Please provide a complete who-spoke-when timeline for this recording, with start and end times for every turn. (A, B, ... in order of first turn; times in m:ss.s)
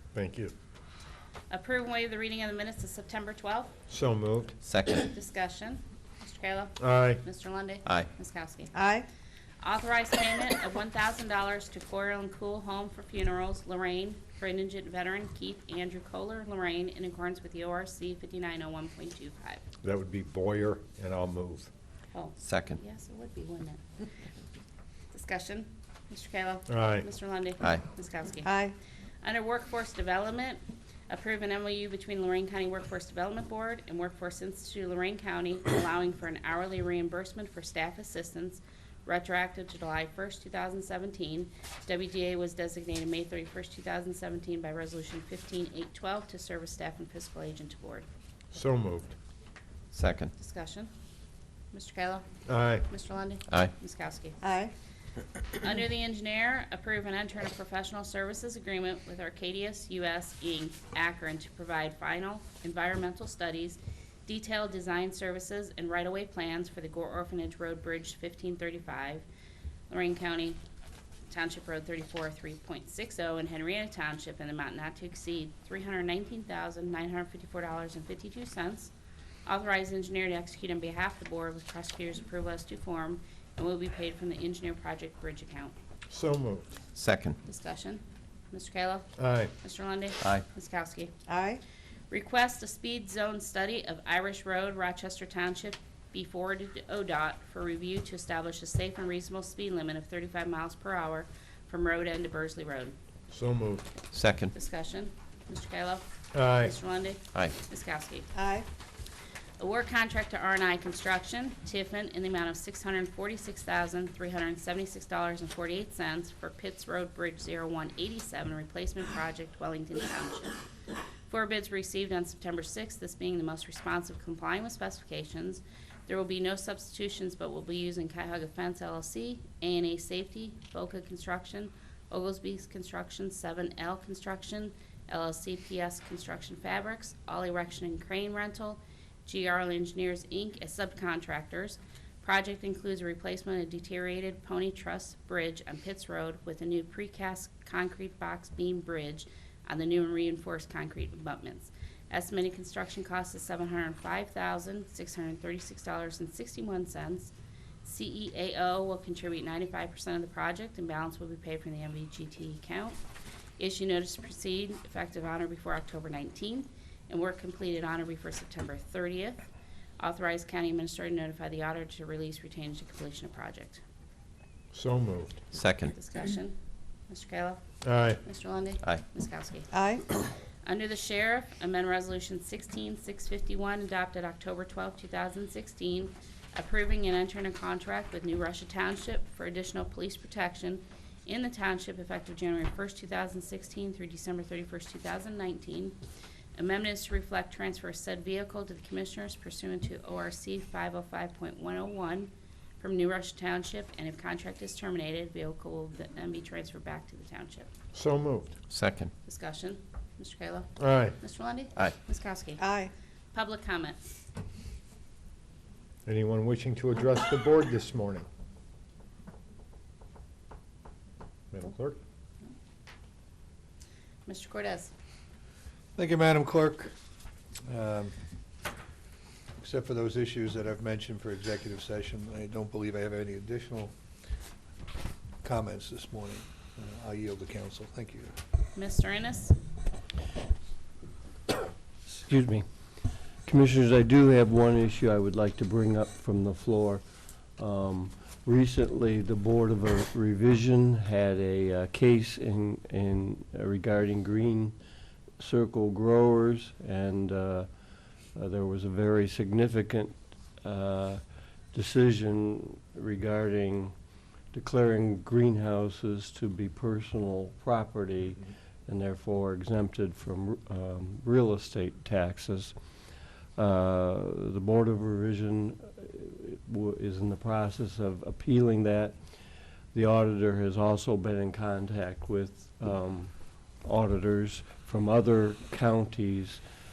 0:00.1-0:00.5 A
0:01.5-0:03.7 B
0:03.9-0:04.8 A
0:04.6-0:04.9 C
0:04.9-0:08.7 B
0:06.8-0:07.2 A
0:08.7-0:09.1 D
0:09.6-0:19.6 B
0:19.8-0:21.7 A
0:22.1-0:24.0 B
0:22.4-0:22.8 C
0:25.1-0:28.6 B
0:26.7-0:27.0 A
0:28.4-0:28.7 D
0:29.2-0:48.0 B
0:48.5-0:49.1 A
0:49.9-0:50.3 C
0:50.4-0:50.9 B
0:51.7-0:52.3 B
0:52.4-0:52.9 A
0:52.9-0:54.4 B
0:54.4-0:54.7 D
0:55.5-1:09.2 B
1:09.9-1:10.6 B
1:11.3-1:18.9 B
1:19.4-1:25.7 B
1:26.1-1:26.6 A
1:27.0-1:27.4 C
1:27.4-1:31.2 B
1:29.2-1:29.5 A
1:31.3-1:31.6 D
1:32.1-1:43.0 B
1:43.3-1:43.8 A
1:44.1-1:44.5 C
1:44.5-1:48.3 B
1:46.3-1:46.7 A
1:48.3-1:48.6 D
1:49.6-2:00.6 B
2:01.3-2:43.0 B
2:43.6-2:49.4 B
2:50.0-2:53.8 B
2:54.7-2:55.6 A
2:55.5-2:55.9 C
2:55.9-2:56.6 B
2:57.1-2:57.6 B
2:57.8-2:58.2 A
2:58.2-2:59.7 B
2:59.7-3:00.0 D
3:00.6-3:16.0 B
3:16.5-3:27.7 B
3:27.9-3:28.8 A
3:28.7-3:29.1 C
3:29.2-3:32.6 B
3:30.8-3:31.2 A
3:32.6-3:32.9 D
3:33.3-3:34.2 B
3:36.0-3:38.3 A
3:41.5-3:42.0 A
3:44.2-3:44.9 B
3:46.0-3:46.9 E
3:47.6-3:48.1 E
3:49.6-3:53.9 E
3:55.4-3:58.3 E
3:58.7-3:59.6 B
4:02.1-4:02.6 F
4:03.4-4:07.0 F
4:07.6-4:14.8 F
4:15.4-4:17.7 F
4:18.3-4:23.9 F
4:24.5-4:32.7 F
4:33.5-4:39.2 F
4:39.9-4:46.6 F